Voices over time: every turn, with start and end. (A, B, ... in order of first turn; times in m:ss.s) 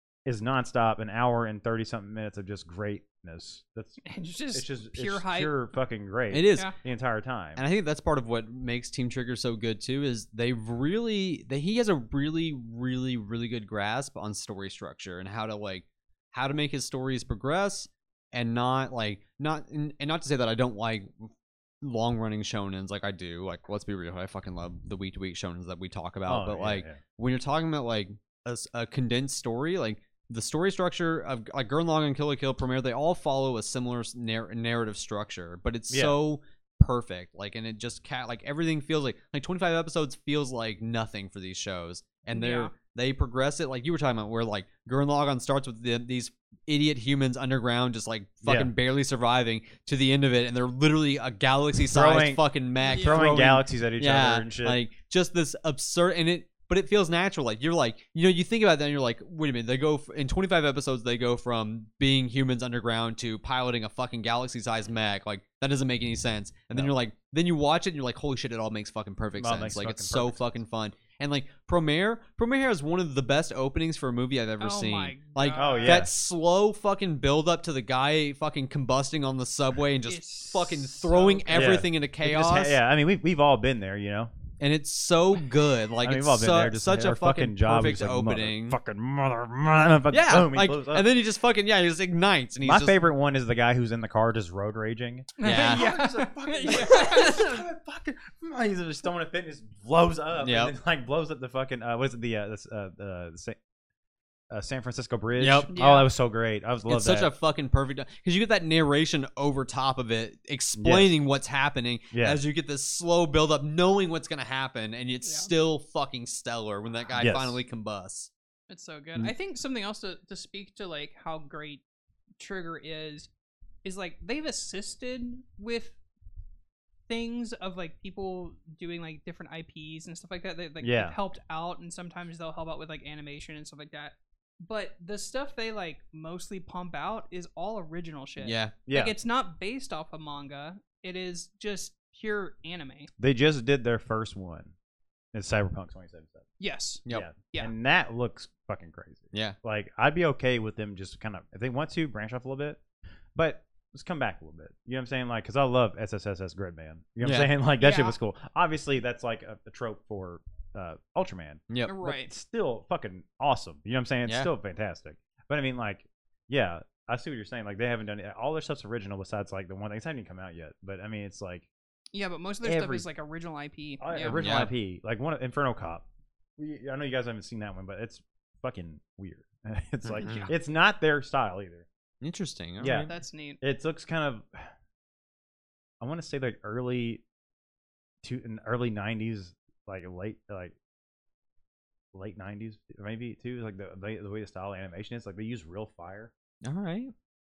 0:00.2-0:07.6 A
0:04.0-0:05.6 B
0:06.3-0:06.7 C
0:07.6-0:21.3 C
0:21.8-1:22.8 C
0:26.3-0:27.0 A
0:35.9-0:36.2 A
0:42.3-0:42.7 B
0:48.4-0:48.7 A
0:51.8-0:54.8 A
0:52.8-0:53.3 B
1:09.4-1:10.5 A
1:14.6-1:16.1 B
1:15.5-1:16.1 A
1:20.0-1:21.8 B
1:21.5-1:24.3 A
1:24.6-1:28.8 C
1:26.0-1:31.1 A
1:30.1-1:33.0 C
1:32.6-1:43.6 A
1:35.4-1:37.6 B
1:35.4-1:35.9 C
1:40.4-1:40.7 C
1:44.5-1:47.3 A
1:45.4-1:45.7 C
1:45.7-1:46.1 B
1:46.9-1:58.3 C
1:50.8-1:51.2 A
1:52.1-1:52.4 A
1:55.2-1:55.5 B
1:57.2-1:57.6 A
1:58.7-2:01.8 B
2:02.4-2:03.3 B
2:03.8-2:06.0 B
2:07.1-2:23.1 B
2:10.8-2:11.2 A
2:18.4-2:18.7 C
2:18.8-2:19.1 A
2:23.2-2:24.7 A
2:25.3-2:26.4 A
2:26.6-2:27.7 B
2:27.1-2:32.8 A
2:33.3-2:51.7 A
2:37.2-2:37.5 C
2:37.8-2:38.2 B
2:41.8-2:42.3 B
2:52.1-2:54.4 B
2:52.6-2:53.1 A
2:54.0-2:56.0 A
2:54.3-2:54.7 C
2:56.6-3:01.8 A
3:00.1-3:00.5 C
3:02.2-3:03.1 C
3:02.8-3:03.1 A
3:03.1-3:03.6 B
3:03.6-3:04.7 A
3:06.0-3:07.2 A
3:08.2-3:10.7 A
3:12.1-3:16.3 A
3:16.6-3:17.1 C